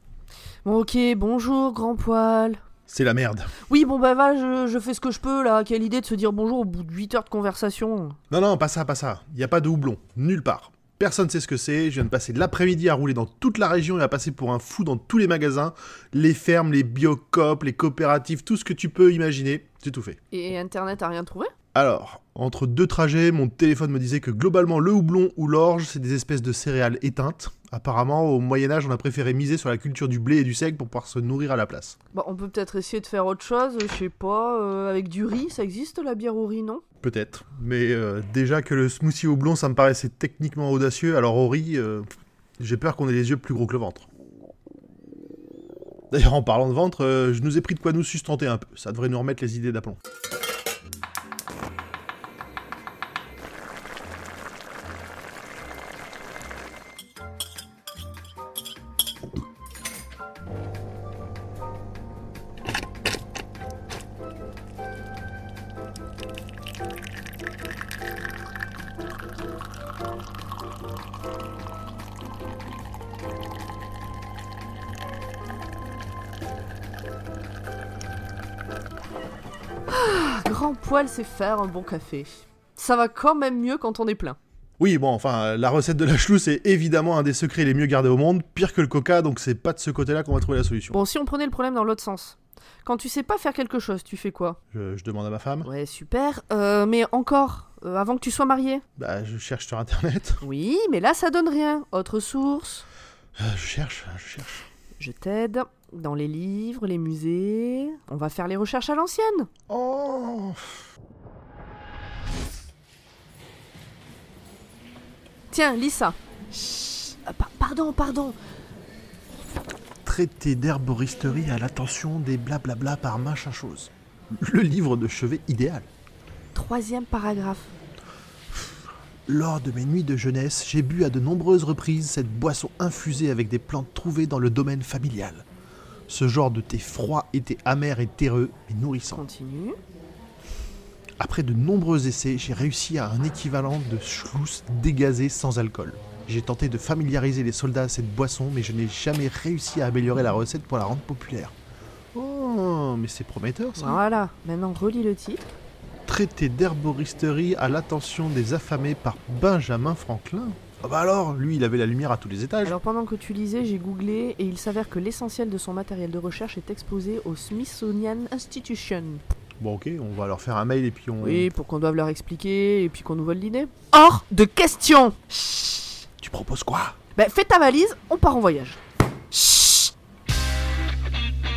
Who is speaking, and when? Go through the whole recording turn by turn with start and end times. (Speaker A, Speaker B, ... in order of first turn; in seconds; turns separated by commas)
Speaker A: 0.6-2.6, Speaker B: 2.9-3.5, Speaker A: 3.7-8.2, Speaker B: 8.3-20.2, Speaker A: 20.3-21.5, Speaker B: 21.7-32.0, Speaker A: 32.1-36.8, Speaker B: 37.0-42.1, Speaker B: 42.6-44.1, Speaker B: 46.1-50.0, Speaker A: 79.9-84.4, Speaker B: 84.8-91.0, Speaker A: 90.9-94.6, Speaker B: 94.7-95.7, Speaker A: 95.6-98.8, Speaker B: 99.0-100.4, Speaker A: 100.4-102.8, Speaker B: 103.4-104.7, Speaker A: 105.0-109.5, Speaker B: 109.7-110.8, Speaker A: 115.5-118.4, Speaker B: 120.0-123.9, Speaker B: 124.4-125.9, Speaker A: 126.5-127.7, Speaker B: 129.3-135.4, Speaker B: 136.1-139.2, Speaker A: 139.1-139.8, Speaker B: 141.2-151.5, Speaker B: 152.1-154.0, Speaker A: 153.8-155.5, Speaker B: 156.1-162.7, Speaker A: 162.6-169.2, Speaker B: 169.6-171.5, Speaker A: 171.2-175.9, Speaker B: 176.2-176.9, Speaker A: 177.2-178.8, Speaker A: 179.3-179.9